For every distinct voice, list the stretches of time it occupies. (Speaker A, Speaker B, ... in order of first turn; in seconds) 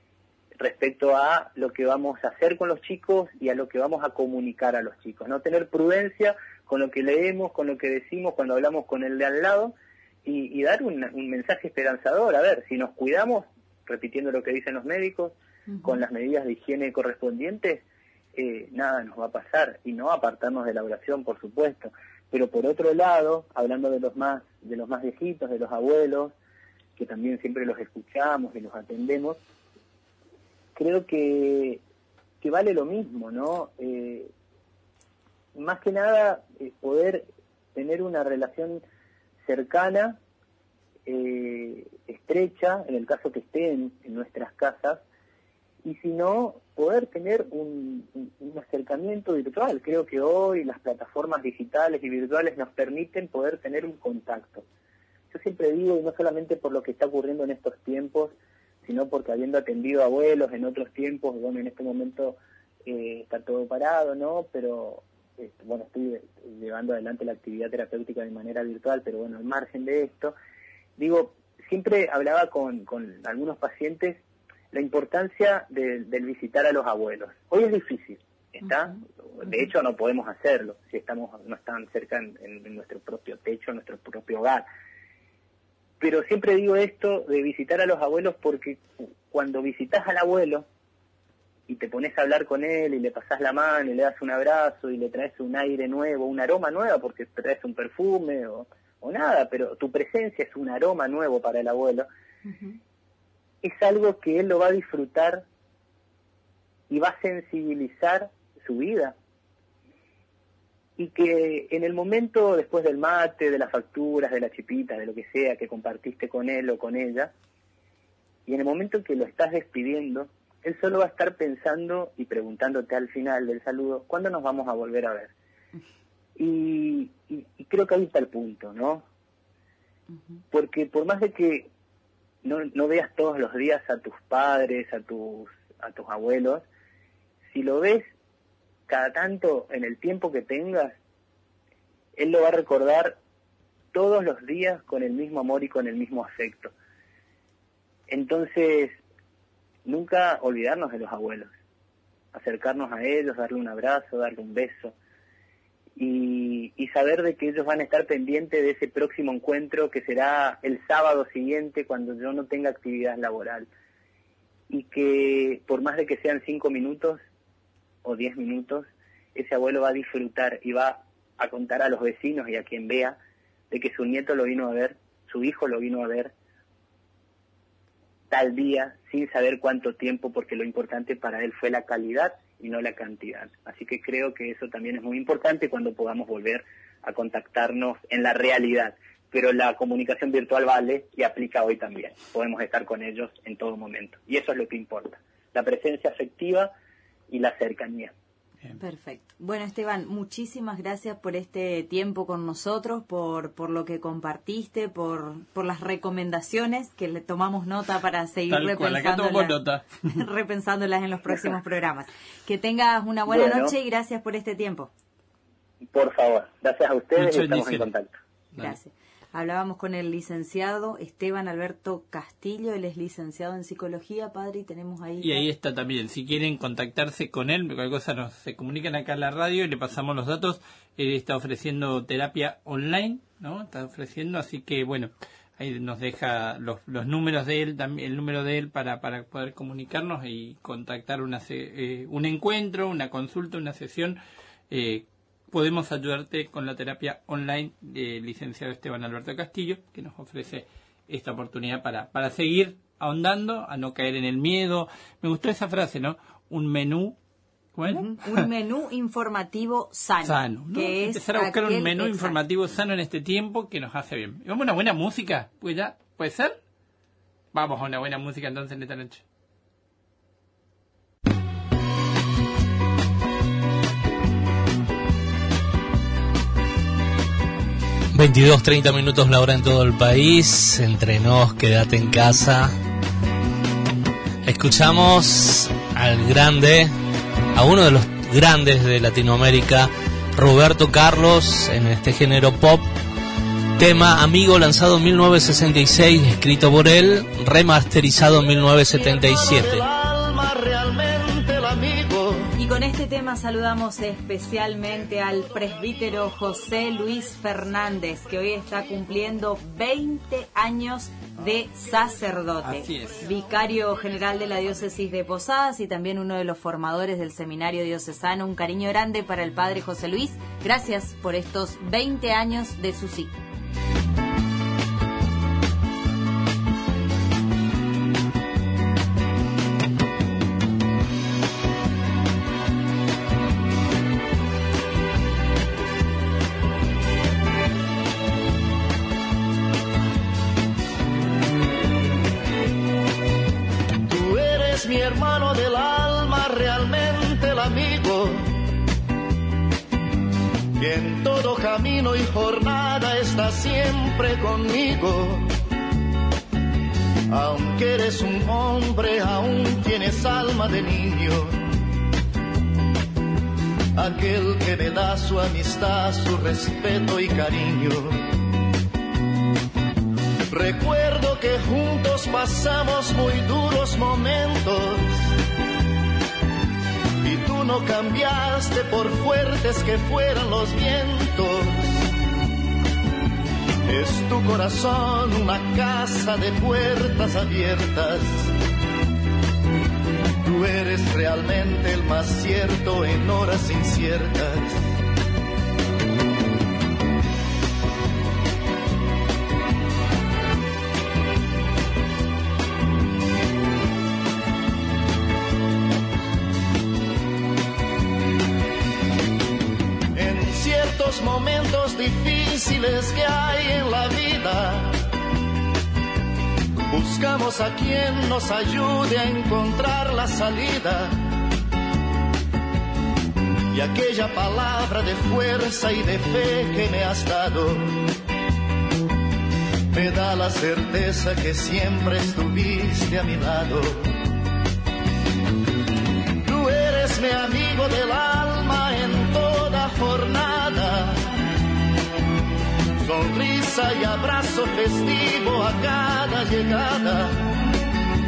Speaker A: 0.6-9.7, 10.2-17.8, 18.4-26.3, 27.0-29.4, 30.8-31.8, 32.4-34.3, 35.5-38.8, 39.5-40.2, 41.1-45.0, 45.8-54.6, 55.3-58.3, 58.8-70.3, 71.0-74.2, 74.7-84.7, 86.0-90.7, 91.7-102.1, 103.6-105.4, 106.9-109.2, 111.0-117.3, 118.5-125.3, 126.4-129.1, 130.5-131.7, 132.4-136.6, 137.5-138.1, 138.9-140.9, 142.2-143.2, 143.9-146.7, 148.1-149.0, 149.9-151.5, 152.3-154.9, 156.0-163.7, 164.7-167.2, 168.0-173.2, 173.7-176.3, 178.3-196.7, 197.3-198.1, 213.3-213.8, 215.9-218.1
Speaker B: 102.5-102.8, 198.8-209.6, 210.1-214.9, 218.6-225.5, 257.9-262.4, 302.6-323.4
Speaker C: 208.5-209.9, 217.2-217.9, 225.2-244.2, 244.7-257.2, 257.8-258.4, 260.2-266.6, 267.5-269.2, 312.6-313.2
Speaker D: 278.1-282.8, 284.4-286.9, 287.5-292.9, 293.8-299.8
Speaker E: 298.1-302.5, 344.1-348.6, 350.8-355.5, 357.3-361.6, 364.0-368.3, 370.5-375.3, 377.2-382.1, 383.9-388.5, 390.4-394.9, 410.1-415.0, 416.9-421.2, 423.7-428.0, 429.9-434.2, 436.4-441.3, 443.0-447.5